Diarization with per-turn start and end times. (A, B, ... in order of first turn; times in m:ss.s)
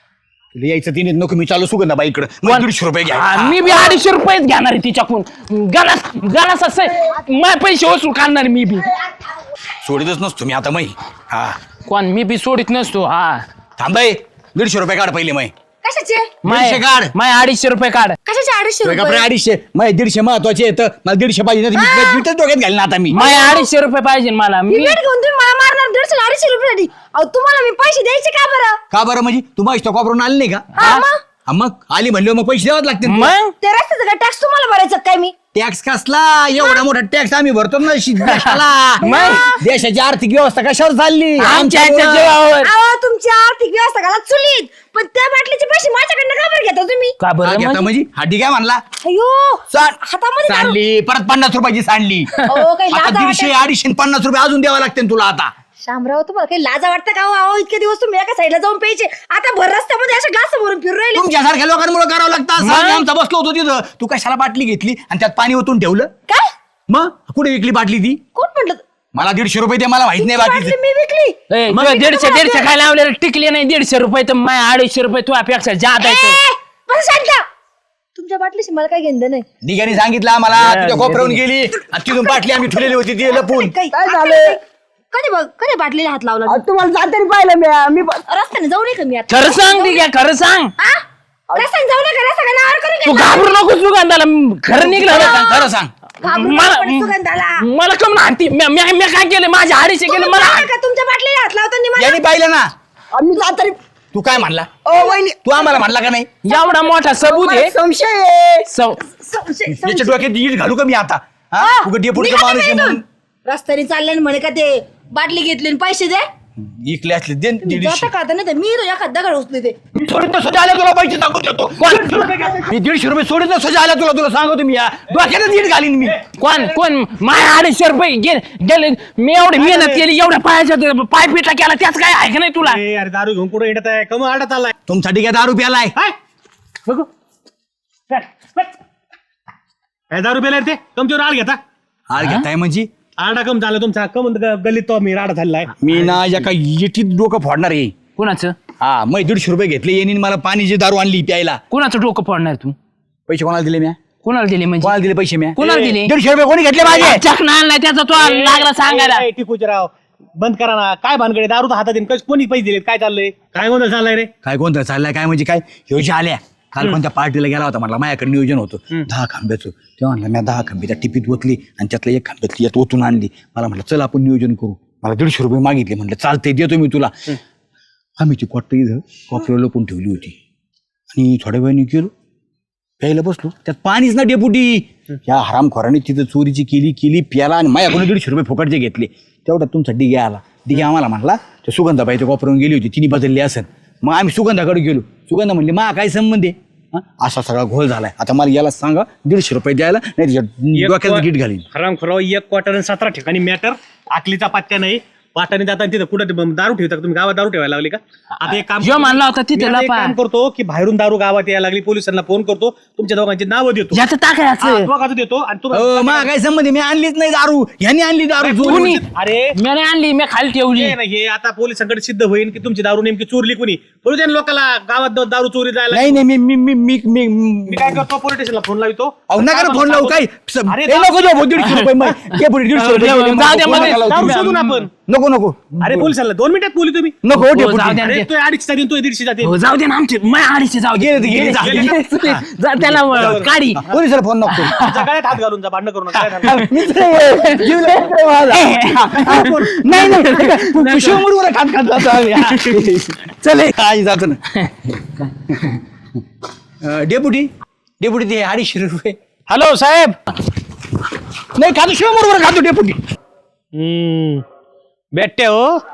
0:00.5-0:03.9 A
0:02.4-0:08.9 B
0:09.8-0:11.6 A
0:11.8-0:13.4 B
0:13.8-0:15.5 A
0:15.8-0:16.3 C
0:16.4-0:18.2 B
0:16.5-0:17.1 A
0:18.3-0:19.3 C
0:18.8-0:23.2 A
0:21.8-0:22.2 C
0:23.1-0:25.0 B
0:23.1-0:23.7 C
0:24.7-0:28.8 C
0:28.9-0:33.3 A
0:30.8-0:31.2 C
0:33.0-0:33.6 B
0:33.6-0:35.3 C
0:35.5-0:42.4 A
0:36.6-0:36.9 C
0:38.2-0:39.5 B
0:39.0-0:39.7 C
0:41.4-0:42.7 B
0:42.6-0:47.2 C
0:47.2-0:47.9 B
0:47.4-0:48.8 A
0:49.0-0:50.8 C
0:49.7-0:52.3 A
0:52.4-0:53.6 C
0:52.9-0:55.5 A
0:55.8-1:01.3 C
1:01.1-1:06.1 A
1:02.6-1:03.0 B
1:06.9-1:08.2 A
1:08.4-1:08.8 C
1:09.1-1:10.8 A
1:10.2-1:12.7 C
1:11.5-1:16.4 B
1:16.0-1:17.4 C
1:18.2-1:19.4 C
1:19.6-1:23.8 A
1:20.6-1:21.4 B
1:22.2-1:24.6 C
1:23.9-1:24.6 D
1:25.1-1:26.6 C
1:26.4-1:28.2 D
1:28.3-1:30.0 C
1:29.3-1:30.7 B
1:30.8-1:31.0 C
1:31.6-1:33.6 C
1:33.0-1:35.6 B
1:34.7-1:35.9 A
1:35.0-1:35.7 C
1:36.2-1:37.7 C
1:36.2-1:40.7 B
1:40.1-1:42.2 C
1:42.0-1:42.7 A
1:43.1-1:43.8 D
1:44.1-1:46.3 A
1:44.8-1:45.8 D
1:46.4-1:47.7 B
1:46.5-1:46.9 C
1:47.2-1:48.7 D
1:48.7-1:49.0 B
1:49.0-1:50.2 C
1:49.7-1:53.0 A
1:51.6-1:56.3 C
1:56.6-1:58.1 A
1:57.6-1:59.8 C
2:00.0-2:06.2 A
2:01.8-2:02.2 B
2:02.1-2:02.6 E
2:06.4-2:12.8 B
2:09.6-2:10.0 E
2:12.6-2:14.7 E
2:14.9-2:16.0 A
2:18.1-2:18.7 B
2:20.1-2:21.6 E
2:22.1-2:22.9 A
2:22.2-2:22.5 B
2:23.2-2:25.8 E
2:25.8-2:27.9 A
2:28.2-2:28.6 B
2:28.8-2:31.6 A
2:31.7-2:32.8 B
2:33.3-2:34.0 A
2:34.2-2:35.0 B
2:34.8-2:37.2 A
2:35.6-2:36.1 B
2:35.6-2:35.9 E
2:36.8-2:39.3 B
2:38.1-2:44.3 E
2:44.4-2:57.4 A
2:58.2-3:00.4 A
3:01.1-3:02.1 A
3:03.0-3:21.7 A
3:20.8-3:34.0 E
3:28.8-3:30.2 B
3:33.9-3:34.9 B
3:34.6-3:36.3 E
3:35.7-3:38.9 A
3:38.4-3:39.5 E
3:38.6-3:39.0 B
3:39.6-3:41.0 B
3:40.8-3:46.2 E
3:45.9-3:48.0 A
3:47.7-3:51.5 E
3:49.3-3:54.5 A
3:51.6-3:54.8 B
3:53.6-3:54.9 E
3:55.1-3:56.1 A
3:55.8-3:57.2 E
3:57.2-3:58.1 A
3:57.3-3:58.3 B
3:58.0-3:59.5 E
3:59.4-4:05.0 B
4:00.9-4:04.8 A
4:01.4-4:02.0 E
4:03.1-4:03.5 E
4:04.7-4:06.6 E
4:06.4-4:14.4 A
4:06.4-4:11.3 B
4:12.2-4:12.8 B
4:14.6-4:15.5 B
4:16.8-4:19.2 A
4:19.5-4:20.2 E
4:21.5-4:23.0 A
4:23.8-4:24.4 E
4:25.2-4:25.7 E